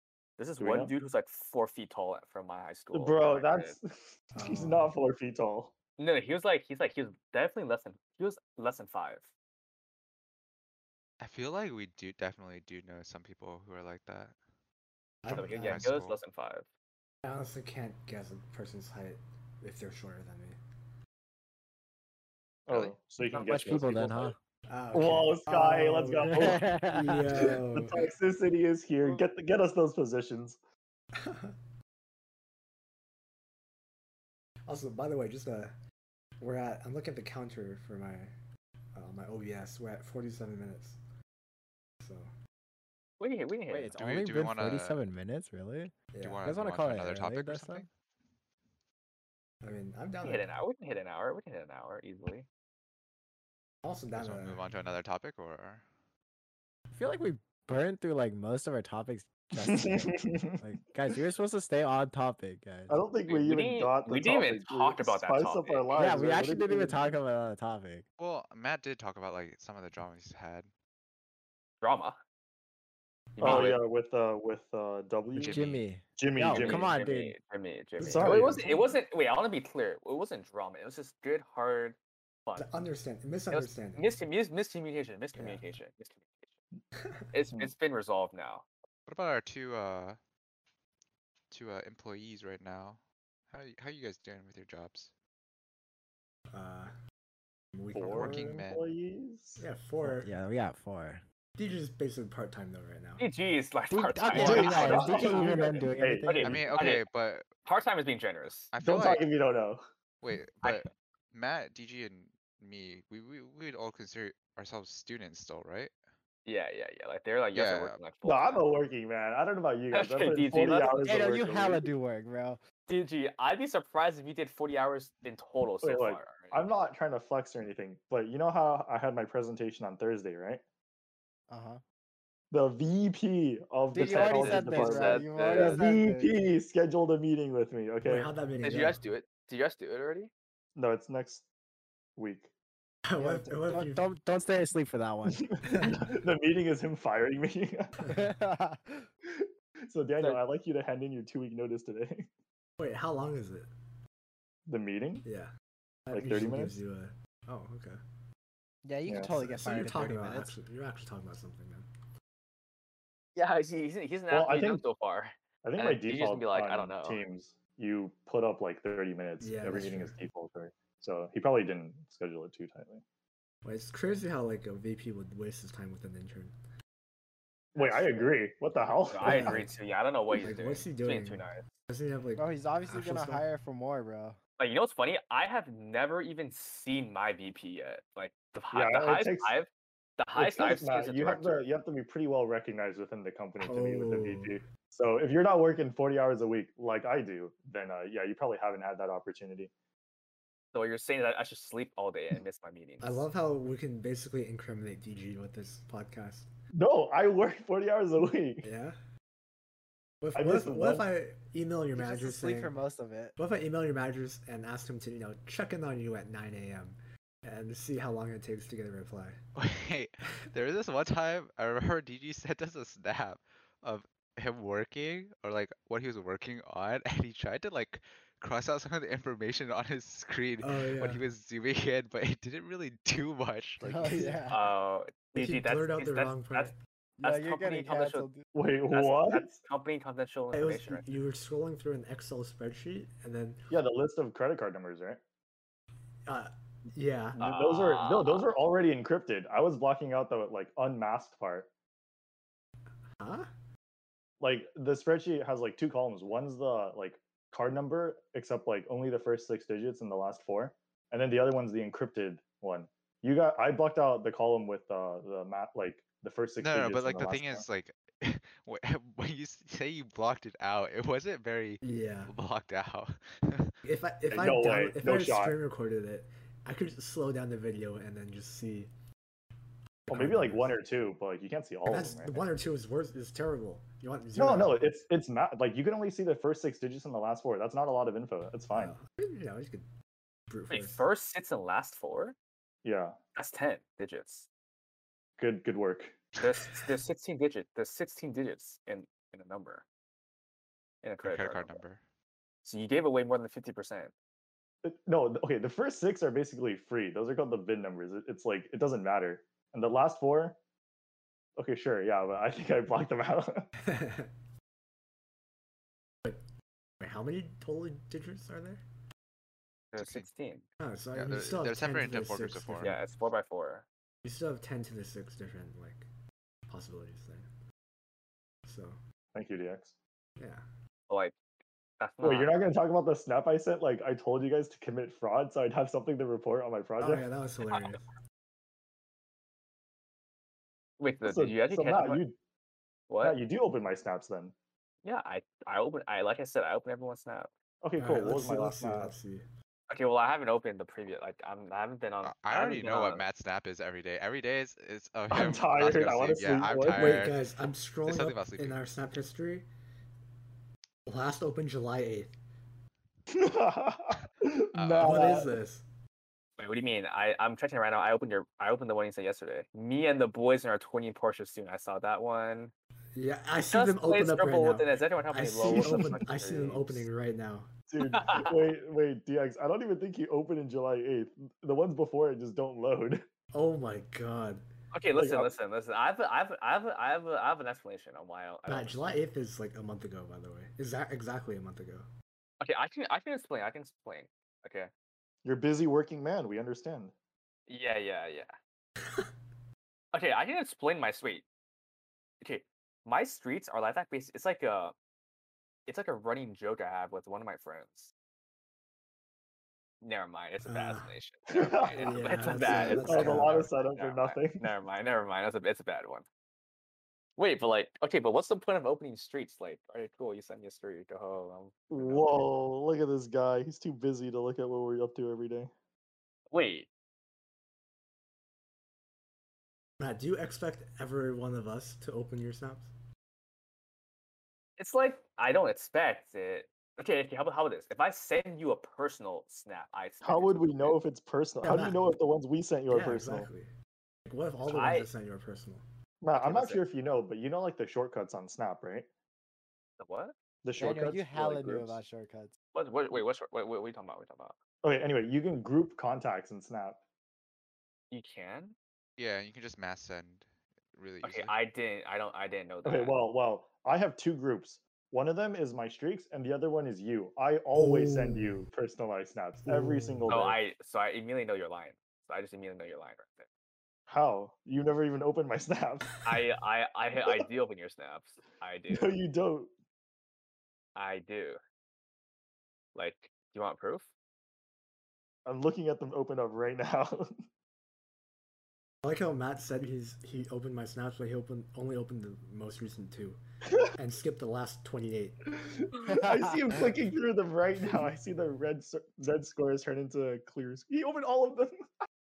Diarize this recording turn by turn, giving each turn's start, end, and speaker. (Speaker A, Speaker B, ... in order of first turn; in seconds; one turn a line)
Speaker A: 0.4-3.8
Speaker B: 0.6-0.9
Speaker B: 2.9-5.7
Speaker C: 4.3-4.9
Speaker A: 6.0-9.3
Speaker D: 11.2-14.3
Speaker C: 15.2-15.9
Speaker A: 15.3-16.7
Speaker D: 15.4-16.2
Speaker C: 17.2-20.6
Speaker B: 22.7-24.3
Speaker D: 22.7-22.9
Speaker E: 23.3-24.4
Speaker A: 23.5-24.0
Speaker C: 24.7-28.1
Speaker B: 24.9-30.6
Speaker E: 26.2-27.6
Speaker C: 31.1-31.6
Speaker C: 34.7-35.8
Speaker C: 36.4-38.3
Speaker C: 39.0-41.0
Speaker C: 42.0-42.3
Speaker A: 43.2-44.0
Speaker E: 43.7-47.9
Speaker D: 44.0-45.0
Speaker C: 46.1-46.4
Speaker D: 46.2-47.9
Speaker C: 49.6-50.4
Speaker A: 50.2-52.5
Speaker C: 53.8-54.6
Speaker D: 54.1-55.9
Speaker E: 56.9-63.0
Speaker B: 59.6-60.6
Speaker B: 62.9-67.1
Speaker A: 63.3-66.2
Speaker E: 66.0-68.0
Speaker D: 68.2-70.7
Speaker A: 71.8-72.2
Speaker A: 73.4-73.8
Speaker B: 73.4-77.0
Speaker D: 75.4-75.8
Speaker E: 75.4-77.4
Speaker A: 76.5-82.8
Speaker C: 78.0-78.9
Speaker B: 78.1-78.7
Speaker C: 82.6-84.1
Speaker A: 83.5-86.5
Speaker C: 85.3-85.7
Speaker A: 87.3-88.7
Speaker D: 89.1-90.2
Speaker D: 91.5-95.1
Speaker C: 96.5-96.9
Speaker C: 97.7-98.6
Speaker B: 98.0-99.7
Speaker D: 98.0-98.8
Speaker C: 99.6-100.3
Speaker E: 100.2-101.2
Speaker C: 101.6-103.3
Speaker A: 103.2-107.0
Speaker E: 103.9-106.7
Speaker D: 104.3-105.3
Speaker B: 104.3-106.6
Speaker D: 106.4-107.5
Speaker A: 107.7-108.7
Speaker D: 108.7-109.3
Speaker B: 108.8-109.8
Speaker D: 110.2-115.9
Speaker A: 116.5-118.6
Speaker D: 117.5-118.0
Speaker B: 118.2-121.9
Speaker A: 119.9-121.0
Speaker E: 120.9-122.6
Speaker A: 122.9-126.6
Speaker B: 125.8-130.6
Speaker E: 131.5-131.8
Speaker B: 132.5-138.3
Speaker E: 133.9-136.4
Speaker A: 134.0-135.8
Speaker C: 138.0-139.0
Speaker A: 138.6-140.3
Speaker B: 140.8-141.5
Speaker B: 142.2-142.5
Speaker C: 143.1-144.1
Speaker E: 143.2-145.5
Speaker B: 145.3-148.0
Speaker C: 145.7-146.1
Speaker E: 148.1-149.1
Speaker B: 149.3-152.3
Speaker C: 152.8-153.7
Speaker B: 154.7-155.2
Speaker C: 155.2-155.5
Speaker C: 156.1-158.0
Speaker B: 156.1-156.8
Speaker E: 158.8-160.6
Speaker B: 159.1-159.3
Speaker C: 159.2-161.9
Speaker A: 163.4-167.2
Speaker B: 164.3-164.8
Speaker B: 165.6-173.0
Speaker C: 169.4-170.1
Speaker C: 173.6-176.5
Speaker B: 177.8-179.7
Speaker A: 177.8-178.4
Speaker A: 179.1-181.6
Speaker C: 179.2-179.7
Speaker C: 180.4-183.5
Speaker E: 182.4-184.4
Speaker A: 184.6-191.7
Speaker B: 188.7-189.6
Speaker B: 190.4-199.7
Speaker C: 193.6-194.5
Speaker A: 200.7-203.3
Speaker C: 203.0-206.5
Speaker B: 206.7-208.7
Speaker C: 208.6-209.0
Speaker C: 210.2-212.8
Speaker B: 210.3-211.1
Speaker E: 212.0-213.3
Speaker C: 213.4-219.4
Speaker D: 219.6-234.3
Speaker C: 230.6-231.2
Speaker E: 233.8-234.6
Speaker A: 234.5-238.3
Speaker C: 235.3-236.8
Speaker E: 237.2-238.4
Speaker B: 238.5-239.6
Speaker A: 238.9-241.0
Speaker C: 240.5-243.6
Speaker B: 243.7-245.2
Speaker C: 246.3-247.4
Speaker B: 247.4-251.7
Speaker A: 247.4-248.5
Speaker C: 253.2-253.5
Speaker B: 254.4-267.7
Speaker D: 266.6-273.7
Speaker C: 271.8-272.3
Speaker C: 273.8-278.9
Speaker B: 274.3-275.6
Speaker C: 280.1-280.8
Speaker B: 280.1-282.4
Speaker C: 281.9-284.9
Speaker B: 284.4-288.9
Speaker C: 288.7-289.9
Speaker C: 290.5-291.1
Speaker A: 290.7-292.4
Speaker B: 292.8-293.2
Speaker A: 293.4-294.5
Speaker B: 295.4-296.2
Speaker A: 296.4-299.9
Speaker D: 296.6-296.9
Speaker A: 301.0-301.8
Speaker D: 301.2-302.0
Speaker A: 302.6-304.1
Speaker B: 304.8-310.6
Speaker B: 311.6-313.7
Speaker C: 313.8-314.3
Speaker C: 317.0-318.8
Speaker A: 319.9-320.6
Speaker D: 320.0-320.3
Speaker C: 320.8-323.0
Speaker D: 321.1-323.0
Speaker A: 322.8-323.9
Speaker C: 324.2-326.1
Speaker C: 326.7-327.5
Speaker C: 328.6-329.0
Speaker B: 329.3-329.9
Speaker C: 330.4-330.6
Speaker A: 331.1-331.4
Speaker A: 332.0-332.5
Speaker B: 332.2-337.2
Speaker C: 337.0-338.1
Speaker A: 341.0-342.2
Speaker B: 341.2-342.4
Speaker A: 343.1-343.4
Speaker B: 343.2-344.5
Speaker A: 345.0-347.5
Speaker B: 347.8-349.1
Speaker C: 348.0-349.4
Speaker A: 349.9-353.2
Speaker D: 352.2-357.4
Speaker B: 355.3-357.1
Speaker C: 356.9-359.7
Speaker D: 358.1-358.8
Speaker C: 361.1-362.3
Speaker B: 363.3-365.5
Speaker D: 364.7-365.3
Speaker C: 365.0-365.9
Speaker A: 366.6-372.7
Speaker C: 373.1-377.7
Speaker A: 373.7-377.1
Speaker B: 375.6-376.3
Speaker B: 377.9-383.2
Speaker A: 378.0-378.5
Speaker C: 383.5-384.6
Speaker A: 384.9-389.1
Speaker B: 385.2-385.6
Speaker C: 388.7-392.1
Speaker A: 392.6-394.9
Speaker B: 395.4-397.1
Speaker A: 397.7-398.6
Speaker C: 399.0-399.3
Speaker A: 400.1-401.5
Speaker A: 402.4-404.9
Speaker A: 405.9-408.1
Speaker A: 410.0-416.3
Speaker C: 410.7-411.1
Speaker B: 411.6-414.6
Speaker C: 412.0-413.7
Speaker A: 417.4-422.5
Speaker B: 421.9-425.7
Speaker A: 426.5-426.9
Speaker C: 430.0-432.9
Speaker A: 434.8-441.0
Speaker B: 440.2-443.5
Speaker C: 441.6-442.1
Speaker C: 442.9-443.7
Speaker C: 444.3-445.8
Speaker A: 444.7-445.1
Speaker B: 446.2-449.1
Speaker A: 446.4-446.8
Speaker A: 450.0-450.3
Speaker B: 450.6-452.0
Speaker E: 450.8-452.5
Speaker A: 452.7-454.6
Speaker B: 454.8-457.0
Speaker A: 458.1-458.8
Speaker D: 459.2-461.5
Speaker A: 461.2-463.1
Speaker B: 462.9-470.6
Speaker C: 467.7-468.6
Speaker C: 469.7-470.3
Speaker A: 470.3-473.5
Speaker B: 474.1-476.2
Speaker A: 476.2-479.1
Speaker B: 478.9-479.7
Speaker A: 481.0-481.6
Speaker A: 482.9-484.1
Speaker B: 485.4-487.3
Speaker C: 489.0-493.4
Speaker C: 493.9-495.5
Speaker B: 495.5-501.8
Speaker E: 496.1-496.4
Speaker C: 497.8-498.1